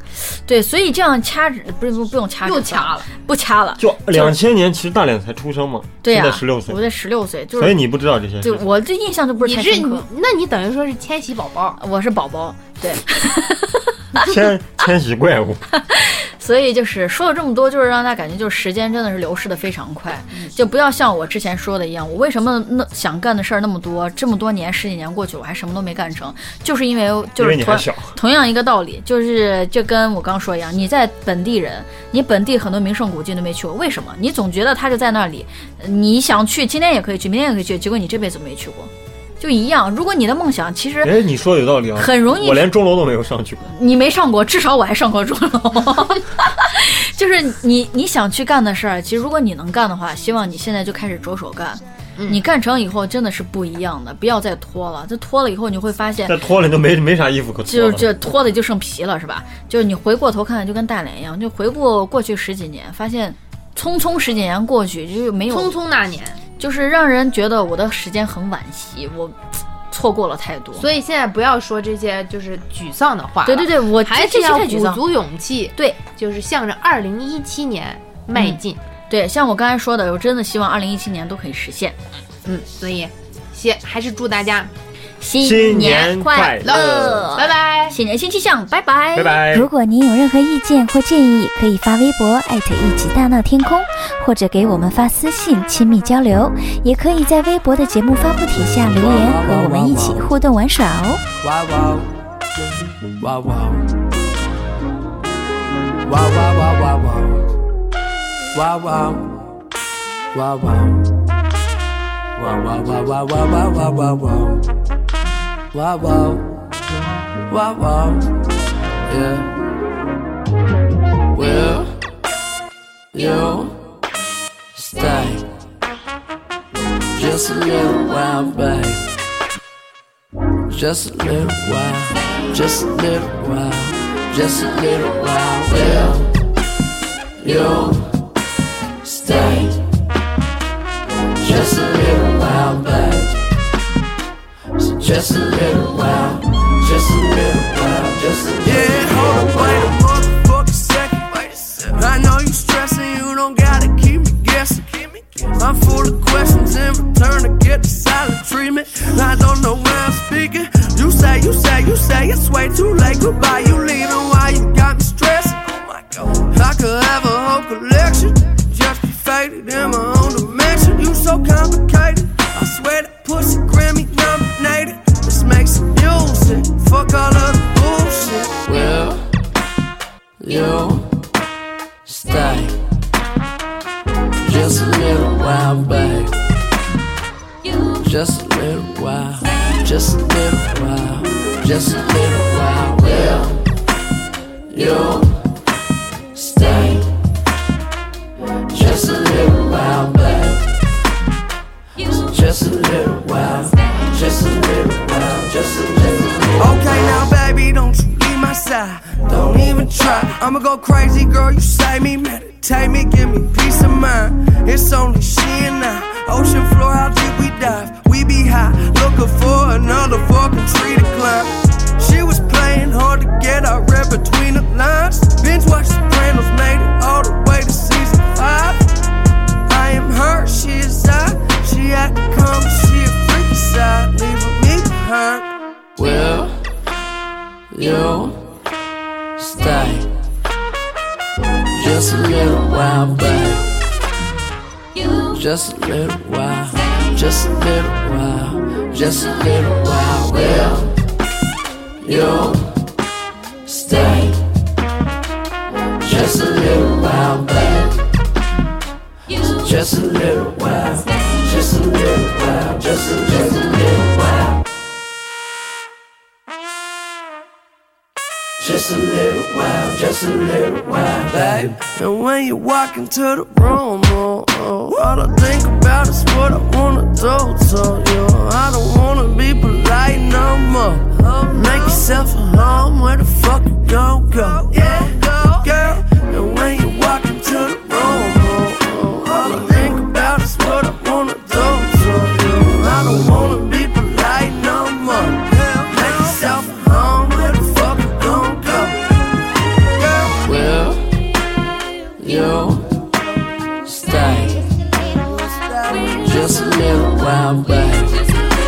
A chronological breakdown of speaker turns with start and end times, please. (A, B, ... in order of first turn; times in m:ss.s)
0:00.2-0:04.3 A
0:02.4-0:03.1 B
0:03.8-0:06.8 C
0:06.0-0:07.9 A
0:07.6-0:08.6 C
0:08.4-0:10.1 A
0:09.4-0:11.8 B
0:11.8-0:14.2 A
0:14.1-0:15.6 C
0:15.7-0:41.2 A
0:27.4-0:28.2 C
0:41.0-0:43.7 C
0:42.0-0:42.8 A
0:43.7-0:56.4 A
0:56.2-0:58.1 C
0:57.7-1:05.8 A
1:05.5-1:06.4 B
1:06.6-1:09.4 A
1:09.9-1:10.8 A
1:10.8-1:18.8 B
1:13.4-1:15.0 A
1:19.1-1:22.6 A
1:22.8-1:24.7 B
1:25.2-1:29.5 A
1:25.4-1:27.3 C
1:26.6-1:28.0 B
1:29.1-1:29.7 C
1:29.5-1:41.2 D
1:38.8-1:40.3 E
1:41.4-1:42.1 E
1:43.2-1:43.9 E
1:46.1-1:47.4 E
1:48.5-1:49.5 E
1:50.3-1:51.1 E
1:52.4-1:54.7 E
1:55.7-1:56.7 E
1:57.5-1:58.5 E
1:59.1-1:59.5 E
2:01.3-2:02.0 E
2:03.1-2:03.9 E
2:04.7-2:05.5 E
2:07.1-2:09.0 E
2:10.7-2:16.4 E
2:17.4-2:18.2 E
2:19.0-2:19.9 E
2:21.4-2:23.4 E
2:24.9-2:29.4 E
2:28.6-2:58.6 F
2:58.6-2:59.3 E
3:00.4-3:01.2 E
3:02.0-3:02.8 E
3:04.4-3:06.4 E
3:08.0-3:13.6 E
3:14.7-3:15.5 E
3:16.3-3:17.1 E
3:18.7-3:20.7 E
3:22.2-3:26.6 E
3:26.6-3:48.8 F
3:49.7-3:55.5 F
3:56.0-3:56.7 E
3:57.7-3:58.6 E
3:59.4-4:00.1 E
4:01.7-4:03.7 E
4:05.3-4:10.9 E
4:12.0-4:12.8 E
4:13.6-4:14.4 E
4:16.0-4:18.0 E
4:19.4-4:24.5 E
4:28.7-4:31.7 E
4:30.6-4:59.0 F
5:00.0-5:00.4 F
5:00.4-5:01.1 E
5:02.2-5:03.0 E
5:03.8-5:04.7 E
5:05.1-5:06.1 F
5:06.2-5:08.2 E